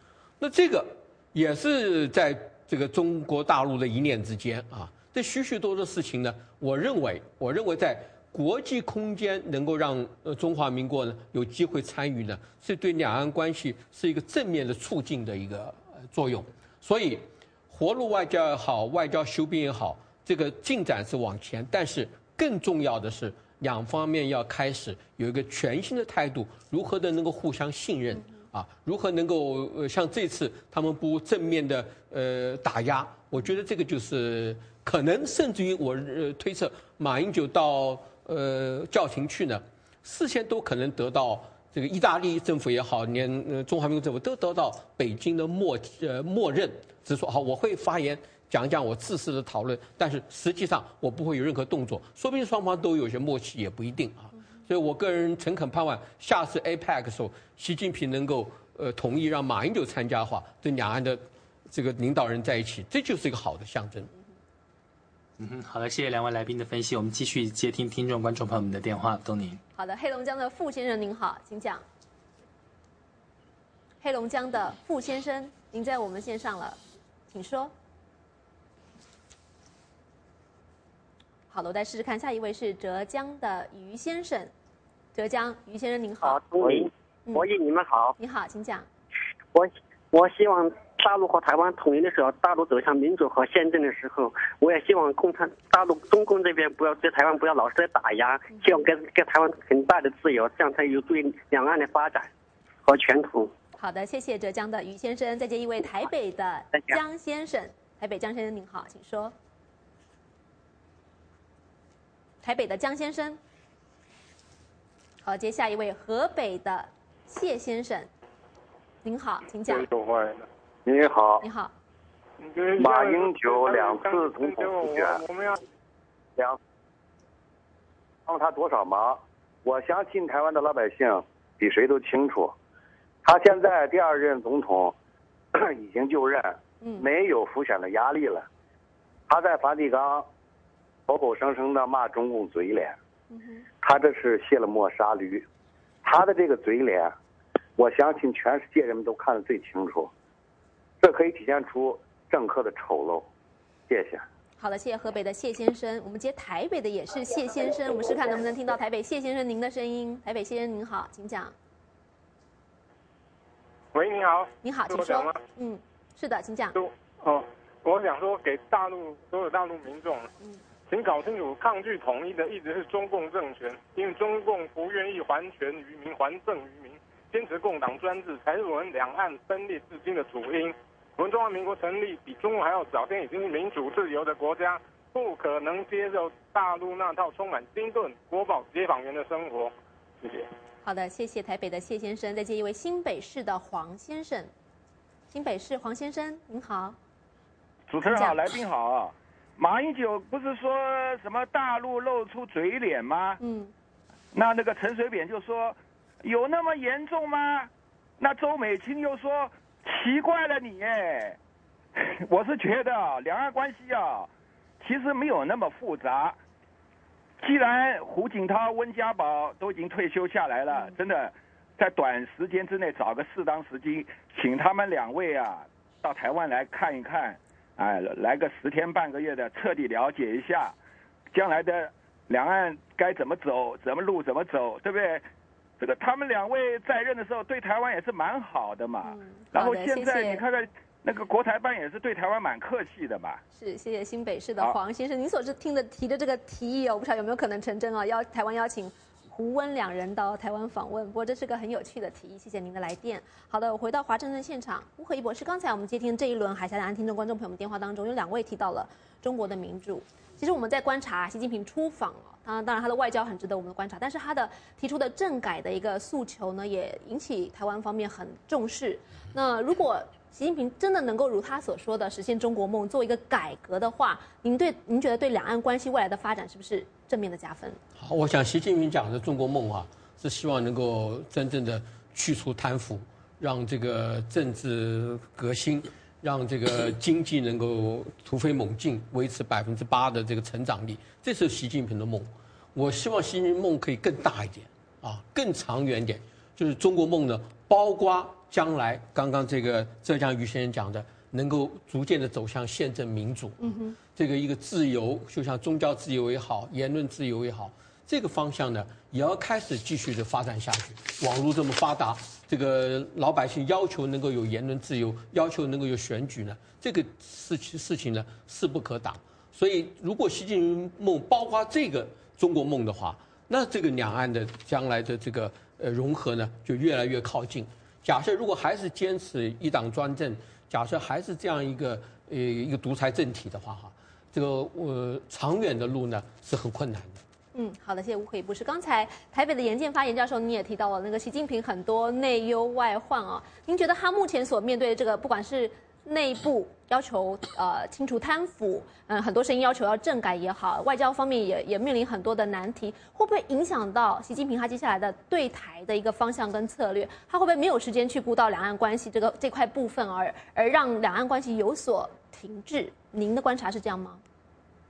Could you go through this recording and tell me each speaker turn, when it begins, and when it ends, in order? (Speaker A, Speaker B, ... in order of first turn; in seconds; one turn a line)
Speaker A: 0.4-64.1
Speaker B: 65.4-69.6
Speaker C: 69.7-71.8
Speaker C: 74.0-76.8
Speaker C: 77.3-77.7
Speaker C: 81.5-84.5
Speaker C: 85.1-86.4
Speaker D: 86.2-88.1
Speaker C: 88.2-88.8
Speaker D: 89.5-102.3
Speaker D: 102.8-103.5
Speaker C: 103.8-109.3
Speaker C: 112.4-113.4
Speaker C: 115.2-118.1
Speaker C: 119.0-119.9
Speaker E: 119.7-120.5
Speaker F: 120.8-121.4
Speaker C: 121.4-121.7
Speaker E: 122.4-125.6
Speaker F: 122.8-125.2
Speaker F: 128.3-132.5
Speaker F: 133.2-134.9
Speaker F: 135.5-138.4
Speaker C: 136.8-137.1
Speaker F: 139.3-140.3
Speaker F: 141.1-142.9
Speaker C: 143.3-143.6
Speaker F: 143.8-145.4
Speaker F: 146.0-147.1
Speaker F: 147.8-150.1
Speaker F: 151.0-153.2
Speaker F: 153.9-154.2
Speaker C: 154.6-161.5
Speaker E: 163.9-165.4
Speaker C: 164.6-166.8
Speaker E: 166.7-170.3
Speaker E: 170.9-190.5
Speaker C: 190.8-194.5
Speaker C: 195.3-197.0
Speaker G: 197.9-203.4
Speaker C: 198.0-198.4
Speaker C: 203.4-203.7
Speaker G: 204.3-211.4
Speaker G: 211.9-216.4
Speaker G: 217.4-230.7
Speaker G: 231.3-235.2
Speaker G: 235.8-243.4
Speaker C: 239.0-240.4
Speaker C: 243.6-277.8
Speaker A: 278.0-337.2
Speaker C: 303.6-304.0
Speaker C: 337.5-364.2